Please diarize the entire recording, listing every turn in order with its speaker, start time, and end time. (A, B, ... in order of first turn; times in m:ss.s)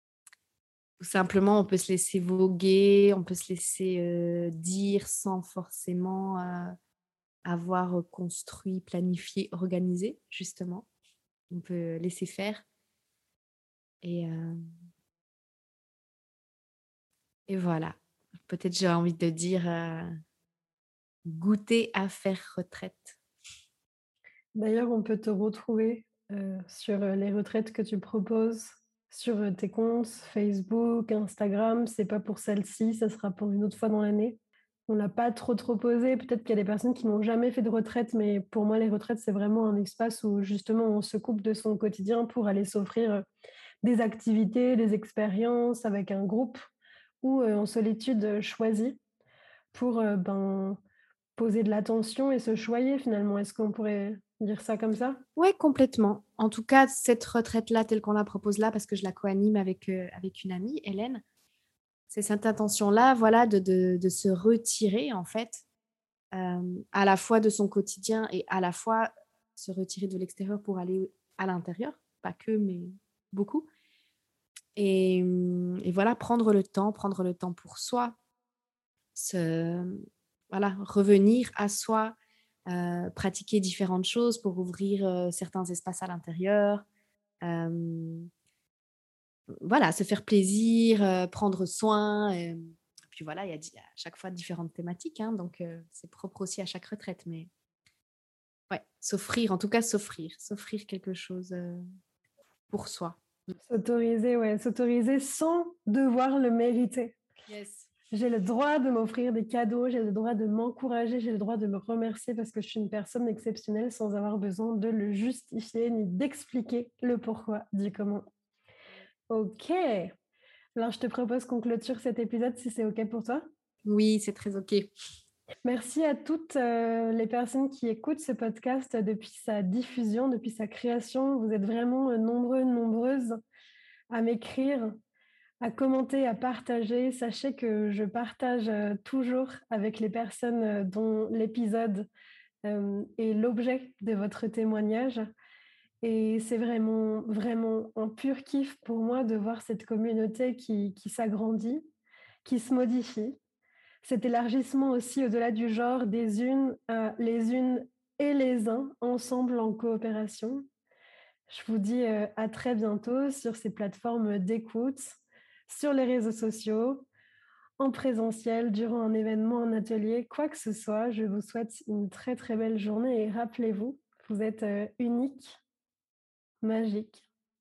0:01.0-0:06.7 A
0:07.4-0:10.9 A
0:11.5-0:12.6 A
0:14.0-0:14.6 A
0:17.5-0:20.1 A
0:21.3-0:23.2 A
0:24.6-0:43.2 B
0:43.8-0:46.6 B
0:47.2-0:49.0 B
0:49.7-0:50.8 B
0:51.4-0:55.2 B
0:55.4-1:01.2 A
1:02.1-1:05.6 A
1:06.3-1:13.7 A
1:14.8-1:18.2 A
1:19.1-1:22.2 A
1:22.7-1:26.8 A
1:27.4-1:28.3 A
1:29.6-1:37.5 A
1:38.7-1:41.8 A
1:42.7-1:43.2 A
1:43.6-1:47.2 B
1:47.5-1:47.9 A
1:48.1-1:58.3 B
1:59.3-2:00.1 B
2:00.8-2:03.5 B
2:03.8-2:04.9 A
2:05.6-2:13.4 B
2:14.1-2:15.0 B
2:15.6-2:22.1 B
2:22.6-2:25.3 B
2:26.0-2:31.8 B
2:32.4-2:33.4 B
2:34.0-2:40.6 B
2:41.5-2:47.1 B
2:47.8-2:55.6 B
2:56.6-2:57.2 B